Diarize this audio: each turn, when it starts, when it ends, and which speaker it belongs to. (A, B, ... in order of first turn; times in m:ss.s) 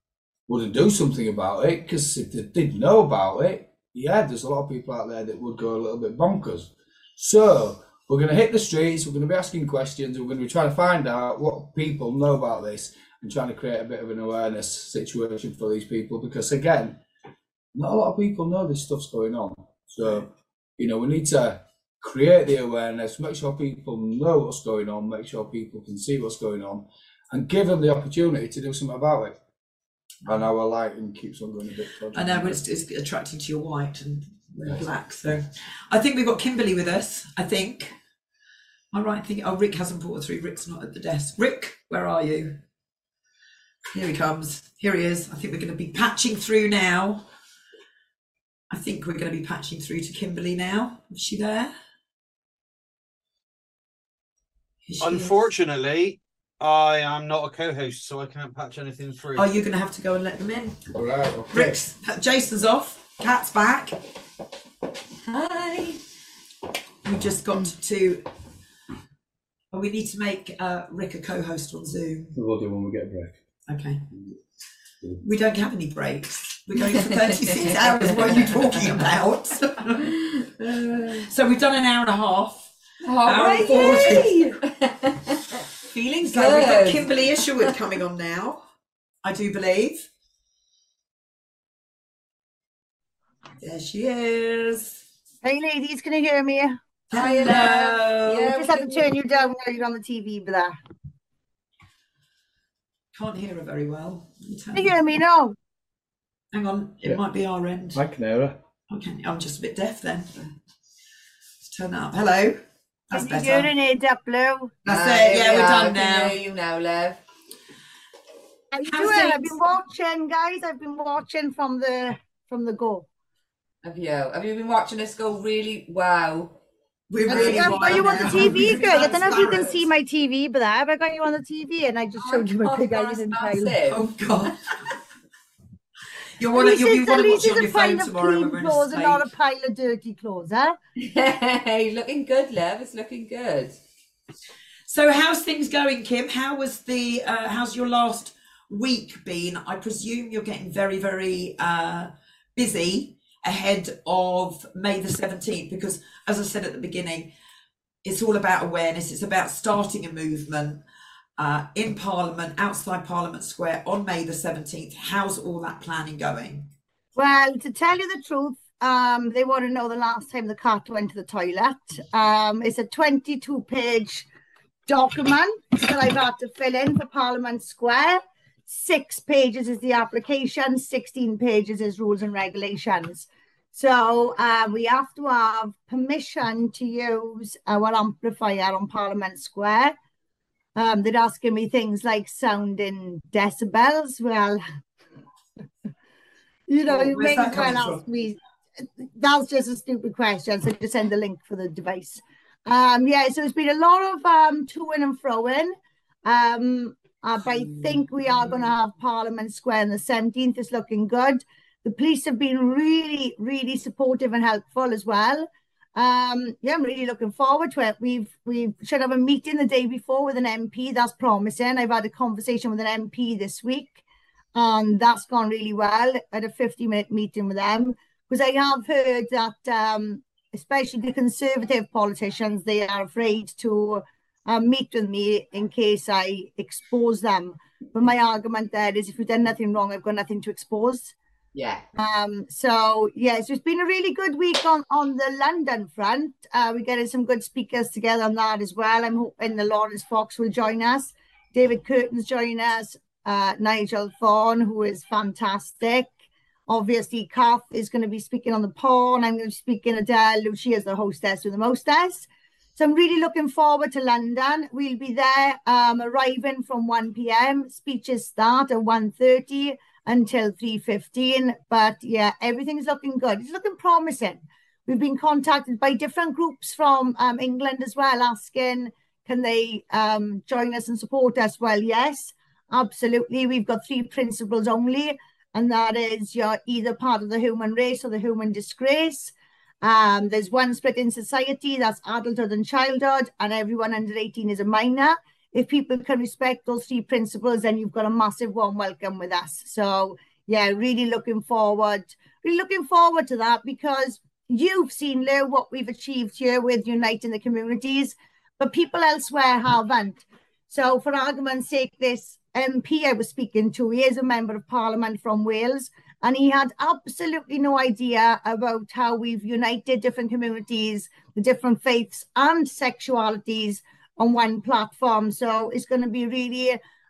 0:00.5-0:17.0 A
0:17.7-0:29.4 A
0:30.2-0:32.6 A
0:32.1-0:37.9 B
0:38.9-0:42.6 B
0:43.9-0:47.3 B
0:48.7-0:51.7 B
0:54.9-0:55.5 B
0:55.0-0:59.5 C
0:59.4-1:00.9 B
1:00.9-1:01.8 A
1:01.5-1:04.0 B
1:05.3-1:06.0 D
1:07.0-1:08.2 B
1:09.7-1:12.4 B
1:12.4-1:13.4 A
1:13.7-1:14.0 B
1:15.2-1:20.2 B
1:16.8-1:19.1 D
1:20.0-1:21.3 D
1:21.2-1:22.7 B
1:23.0-1:27.8 D
1:23.2-1:24.6 B
1:26.2-1:28.6 B
1:29.2-1:30.0 B
1:33.6-1:35.0 B
1:35.4-1:36.8 E
1:37.1-1:38.5 B
1:37.1-1:39.1 D
1:38.4-1:40.7 E
1:43.2-1:45.0 B
1:44.7-1:45.6 E
1:46.5-1:48.0 B
1:47.9-1:48.6 A
1:48.9-1:50.4 B
1:51.6-1:53.7 B
1:53.1-1:54.8 E
1:54.8-1:56.4 B
1:54.9-1:57.2 D
1:58.7-2:03.1 E
1:58.9-1:59.6 B
2:03.8-2:06.6 D
2:07.1-2:09.9 B
2:07.3-2:13.8 E
2:07.3-2:09.0 D
2:12.2-2:14.1 D
2:13.9-2:14.8 B
2:16.4-2:19.3 B
2:16.5-2:20.8 E
2:21.0-2:23.8 D
2:24.9-2:37.3 B
2:38.0-2:40.8 B
2:41.4-2:46.7 B
2:47.2-2:54.3 E
2:54.9-3:10.0 E
3:10.8-3:14.6 E
3:16.7-3:25.7 E
3:16.9-3:18.0 B
3:26.2-3:44.0 E
3:44.6-4:01.1 E
4:01.6-4:01.8 D
4:02.0-4:16.1 E
4:16.7-5:26.8 E